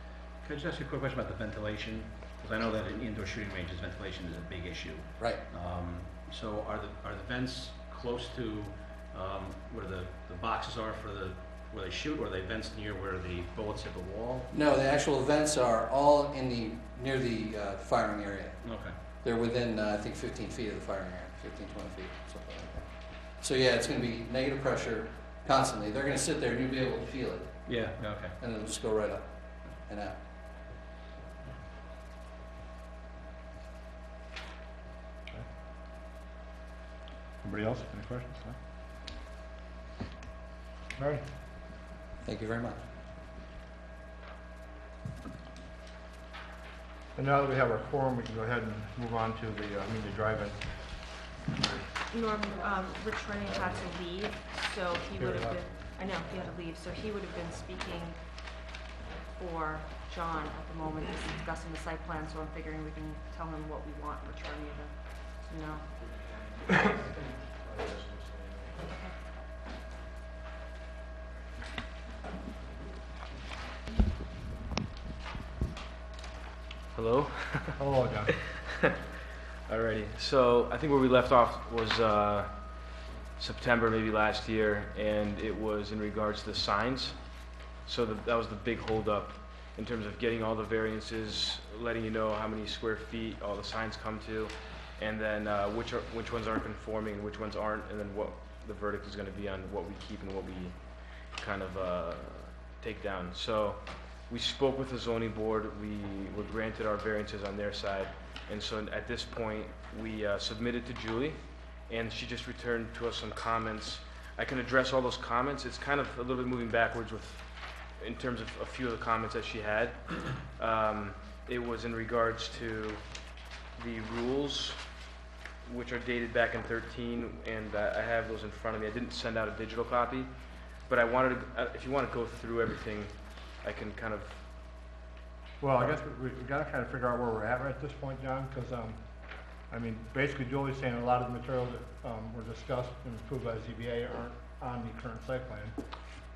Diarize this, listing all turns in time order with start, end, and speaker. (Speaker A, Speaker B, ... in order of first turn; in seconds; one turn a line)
Speaker A: 0.4-14.5
Speaker B: 14.5-18.6
Speaker A: 18.6-19.0
Speaker B: 19.2-27.7
Speaker A: 27.7-28.4
Speaker B: 28.4-30.2
Speaker C: 37.4-38.6
Speaker C: 41.0-41.2
Speaker B: 42.2-42.8
Speaker C: 47.2-50.6
Speaker D: 52.1-58.2
Speaker C: 55.2-55.6
Speaker D: 59.4-65.8
Speaker E: 67.4-68.6
Speaker D: 68.8-69.1
Speaker E: 76.9-78.9
Speaker C: 77.8-78.3
Speaker E: 79.7-82.8
Speaker E: 83.4-87.2
Speaker E: 87.8-100.8
Speaker E: 101.4-123.0
Speaker E: 123.8-124.8
Speaker E: 125.7-130.3
Speaker E: 130.9-134.4
Speaker C: 135.6-139.0
Speaker C: 139.7-145.8